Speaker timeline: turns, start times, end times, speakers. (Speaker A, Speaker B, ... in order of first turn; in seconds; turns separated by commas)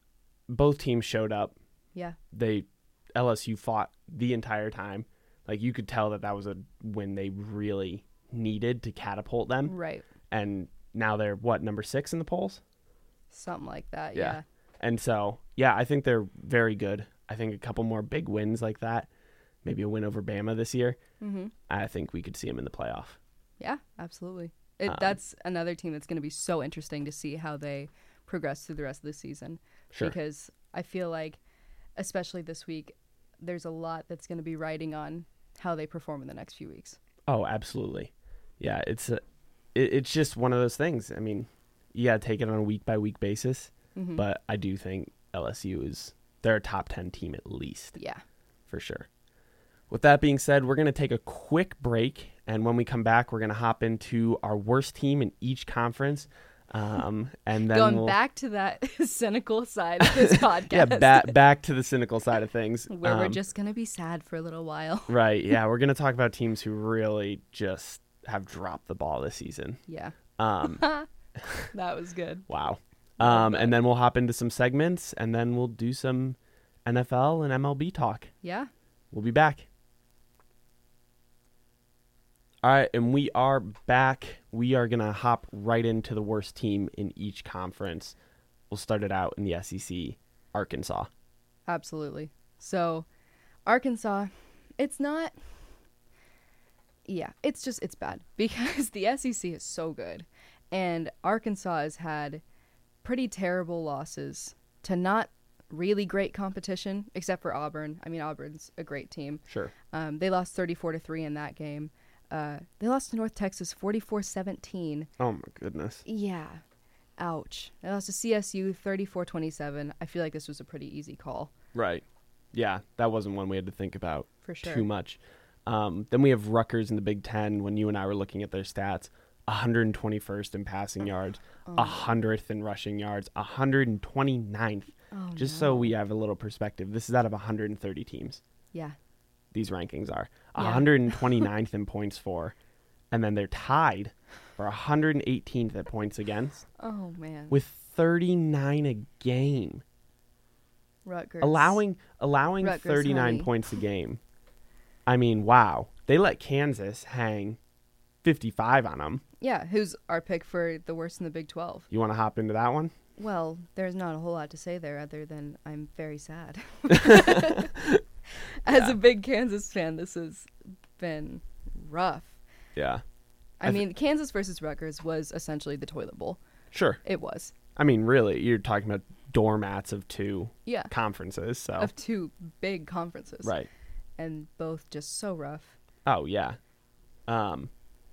Speaker A: 0.5-1.6, Speaker A: 2.3-9.8, Speaker B: 9.7-10.1, Speaker A: 10.3-12.6, Speaker B: 13.3-14.4, Speaker A: 14.2-19.1, Speaker A: 19.6-21.0, Speaker B: 21.2-21.5, Speaker A: 21.7-23.2, Speaker B: 23.6-31.4, Speaker A: 24.9-25.2, Speaker B: 32.0-37.0, Speaker A: 37.3-39.2, Speaker A: 39.8-48.0, Speaker B: 44.0-44.2, Speaker B: 48.0-48.2, Speaker A: 48.7-49.1, Speaker A: 49.9-58.1, Speaker B: 57.7-61.4, Speaker A: 60.0-63.4, Speaker B: 62.9-65.2, Speaker A: 65.1-69.8, Speaker B: 69.9-71.1, Speaker A: 70.4-70.8, Speaker A: 71.4-71.7, Speaker B: 71.7-72.5, Speaker A: 72.5-78.3, Speaker B: 73.2-73.8, Speaker B: 78.4-78.7, Speaker A: 79.1-79.7, Speaker A: 82.6-88.2, Speaker A: 88.7-91.1, Speaker B: 91.7-93.1, Speaker B: 93.7-95.4, Speaker B: 97.1-102.4, Speaker B: 103.0-115.1, Speaker A: 115.2-116.0, Speaker B: 116.1-116.6, Speaker B: 117.2-121.5, Speaker A: 121.7-138.4, Speaker B: 124.5-124.8, Speaker B: 131.7-132.1, Speaker B: 135.1-135.9, Speaker A: 139.5-142.6, Speaker B: 140.6-141.5, Speaker A: 143.1-146.7, Speaker B: 146.8-147.6, Speaker A: 147.5-149.8, Speaker B: 151.1-151.8, Speaker A: 151.4-154.2, Speaker B: 152.6-153.5, Speaker A: 155.1-157.6, Speaker A: 158.2-159.2, Speaker B: 159.4-161.9, Speaker A: 161.9-162.9, Speaker B: 163.2-167.7, Speaker A: 166.9-168.0, Speaker B: 168.4-172.4, Speaker A: 168.7-169.0, Speaker A: 172.8-173.0, Speaker B: 173.6-176.4, Speaker A: 176.7-177.0, Speaker B: 177.0-177.5, Speaker A: 177.8-181.9, Speaker B: 180.7-180.9, Speaker B: 181.8-183.5, Speaker A: 183.4-183.7, Speaker B: 184.2-185.8, Speaker A: 186.1-186.6, Speaker A: 187.3-187.7